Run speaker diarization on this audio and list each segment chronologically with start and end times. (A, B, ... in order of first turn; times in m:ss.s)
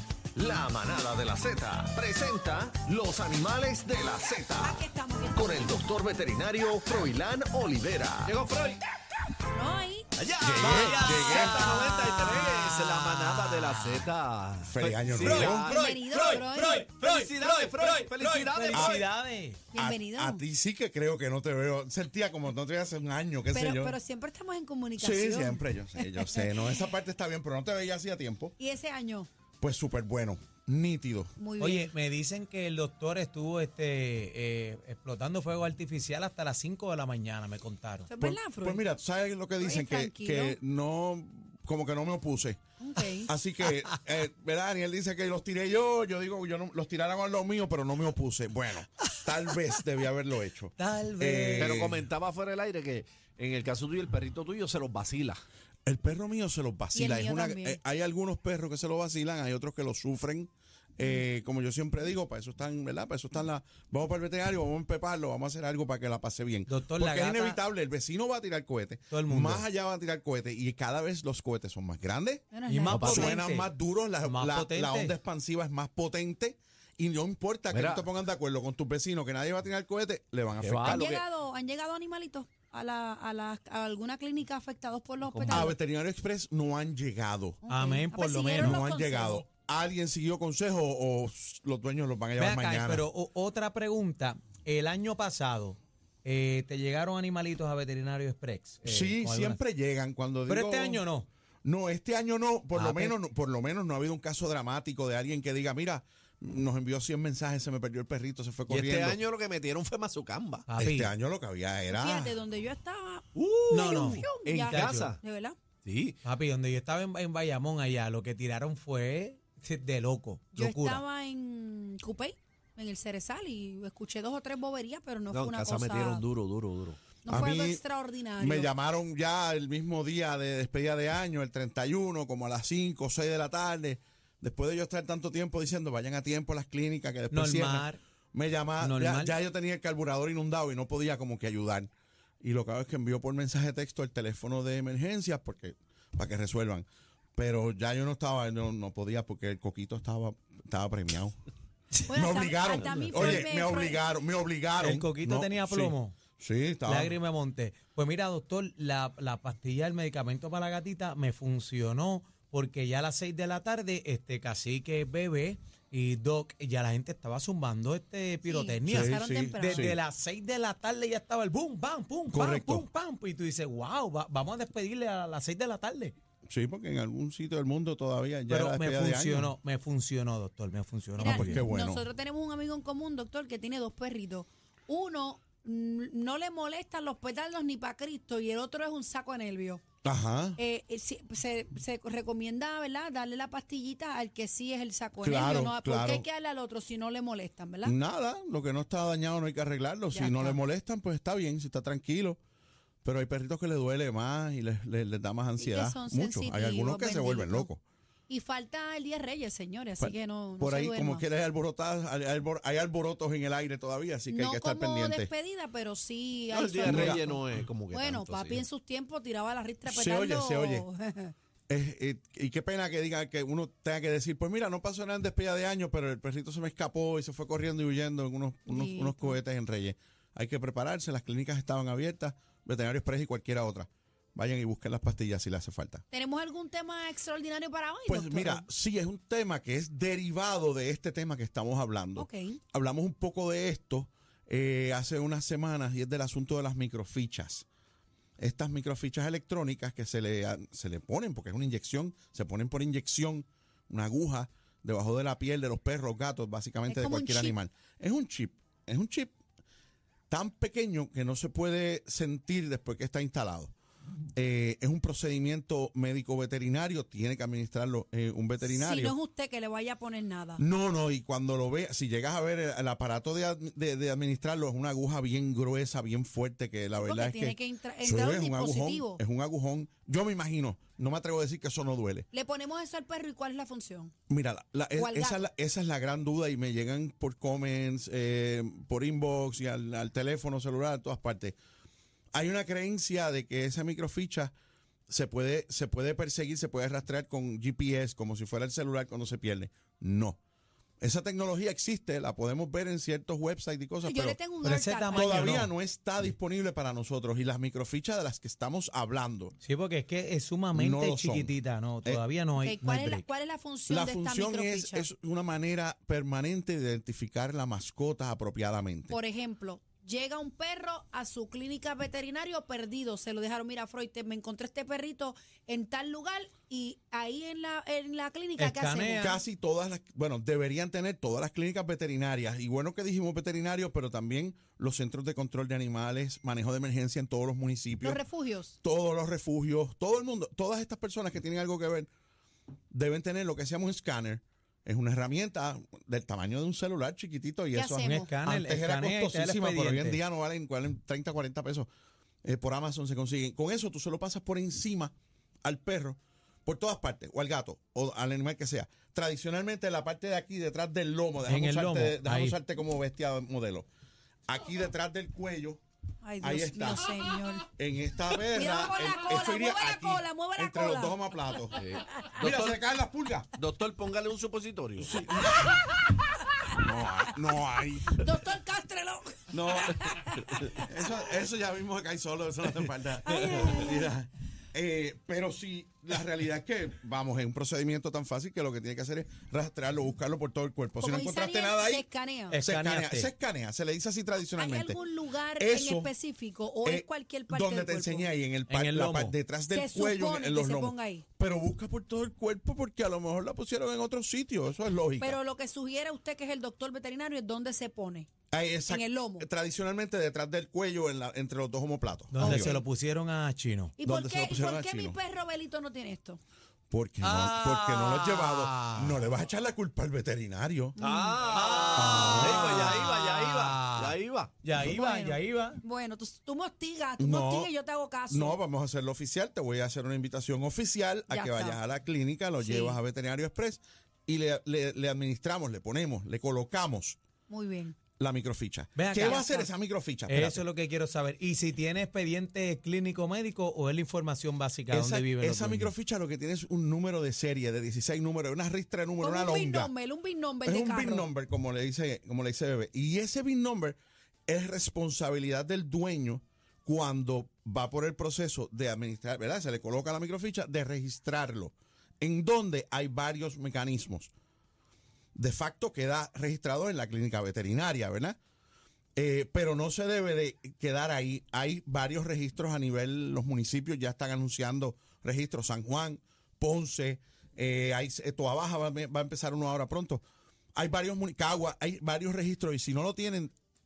0:00.4-0:04.8 A
0:04.6-0:05.8 B
0:05.3-0:08.4 A
0:08.2-0:08.8 C
0:09.5-0:10.1 B
0:10.2-0:19.1 C
0:10.4-0:11.6 D
0:10.6-0:14.0 E
0:14.7-0:15.8 D
0:15.2-0:19.6 E
0:15.6-0:16.9 B
0:18.7-0:19.0 D
0:19.7-0:20.4 B
0:19.8-0:24.0 D
0:23.5-0:26.5 B
0:25.0-0:28.5 D
0:28.6-0:29.3 B
0:29.6-0:31.4 D
0:31.4-0:31.9 B
0:31.6-0:38.1 E
0:38.1-0:38.8 B
0:38.2-0:42.6 D
0:39.6-0:40.6 B
0:42.8-0:43.3 B
0:43.2-0:52.1 D
0:50.8-0:51.7 E
0:51.6-0:55.4 C
0:55.9-1:12.4 D
0:56.9-0:57.8 B
1:06.7-1:07.6 E
1:09.1-1:09.6 E
1:12.5-1:13.4 B
1:12.7-1:13.7 E
1:12.9-1:13.3 C
1:13.0-1:21.1 D
1:14.2-1:15.2 E
1:17.7-1:18.1 C
1:20.6-1:21.2 C
1:20.8-1:25.8 B
1:25.3-1:25.6 C
1:25.5-1:27.6 D
1:27.6-1:29.5 B
1:27.7-1:28.8 E
1:28.5-1:33.1 D
1:32.4-1:39.6 E
1:38.8-1:41.0 D
1:40.5-1:41.3 E
1:41.6-1:49.2 D
1:42.8-1:43.2 E
1:48.7-1:50.7 C
1:50.7-1:51.1 E
1:50.8-1:52.4 D
1:51.9-1:55.6 B
1:53.4-1:55.2 C
1:53.7-1:55.1 E
1:55.8-1:56.2 C
1:56.2-2:01.0 E
2:00.5-2:06.2 B
2:05.3-2:07.0 C
2:07.2-2:08.7 B
2:07.3-2:07.8 D
2:08.4-2:21.9 D
2:17.3-2:18.0 E
2:18.8-2:19.3 E
2:22.4-2:31.4 D
2:32.1-2:34.0 B
2:32.1-2:37.2 D
2:32.8-2:33.4 E
2:34.8-2:36.2 E
2:36.9-2:56.2 E
2:48.5-2:49.9 B
2:48.9-2:50.0 D
2:52.3-2:52.9 D
2:56.5-2:59.6 D
2:58.5-3:01.6 E
3:01.2-3:09.8 B
3:01.2-3:02.0 D
3:10.0-3:10.6 D
3:10.6-3:18.0 B
3:15.2-3:16.3 D
3:17.8-3:22.4 D
3:20.1-3:20.6 B
3:23.0-3:27.8 D
3:25.6-3:27.7 B
3:28.3-3:31.2 B
3:30.0-3:35.3 D
3:34.3-3:41.3 B
3:36.5-3:38.6 C
3:36.8-3:37.2 D
3:39.9-3:40.9 D
3:41.7-3:56.0 D
3:48.7-3:49.4 B
3:56.1-3:58.7 B
3:58.1-4:07.7 D
4:02.2-4:02.6 B
4:08.4-4:19.3 D
4:16.9-4:17.6 B
4:20.3-4:23.7 D
4:24.4-4:29.2 D
4:28.6-4:30.6 B
4:30.6-4:42.3 D
4:37.0-4:39.2 B
4:42.3-4:44.1 B
4:44.3-4:51.6 D
4:45.0-4:45.4 B
4:52.3-4:54.5 D
4:55.1-5:00.4 D
5:01.0-5:09.5 D
5:04.0-5:05.5 B
5:04.6-5:05.7 E
5:09.6-5:13.2 E
5:10.7-5:12.2 D
5:12.6-5:15.1 B
5:13.9-5:19.2 D
5:19.1-5:29.3 B
5:28.6-5:29.4 E
5:29.2-5:38.2 D
5:38.0-5:38.8 B
5:38.8-5:42.1 D
5:42.9-5:51.9 D
5:47.7-5:48.3 B
5:48.0-5:50.2 E
5:52.4-6:03.9 D
6:01.5-6:02.6 E
6:04.5-6:05.8 D
6:06.2-6:07.6 B
6:06.4-6:07.1 D
6:07.8-6:11.8 D
6:08.5-6:11.3 B
6:11.8-6:12.8 C
6:12.4-6:13.5 D
6:13.6-6:15.2 C
6:15.0-6:15.7 D
6:15.5-6:16.7 B
6:16.8-6:18.3 D
6:18.1-6:20.8 B
6:19.5-6:32.0 D
6:23.2-6:24.1 B
6:31.0-6:32.6 B
6:32.5-6:33.3 E
6:32.6-6:35.0 D
6:34.5-6:38.3 B
6:35.6-6:36.1 D
6:36.8-6:45.4 D
6:38.7-6:39.3 E
6:39.7-6:41.2 B
6:45.2-6:48.3 B
6:48.5-6:52.8 D
6:48.9-6:49.5 B
6:52.3-6:54.0 E
6:52.4-6:52.7 B
6:54.0-6:56.4 B
6:54.0-6:55.2 D
6:56.9-7:01.0 D
6:57.2-6:59.2 E
7:01.0-7:01.5 B
7:01.0-7:04.6 C
7:01.5-7:05.8 E
7:02.0-7:03.0 D
7:04.8-7:08.6 B
7:07.2-7:07.7 D
7:08.3-7:17.2 D
7:11.3-7:11.8 B
7:12.6-7:13.0 B
7:17.5-7:18.0 B
7:18.2-7:20.6 D
7:19.0-7:19.6 E
7:20.3-7:25.9 E
7:24.9-7:29.9 D
7:29.2-7:31.3 B
7:30.7-7:44.3 D
7:45.4-7:48.4 D
7:49.2-8:00.2 D
8:00.8-8:03.5 D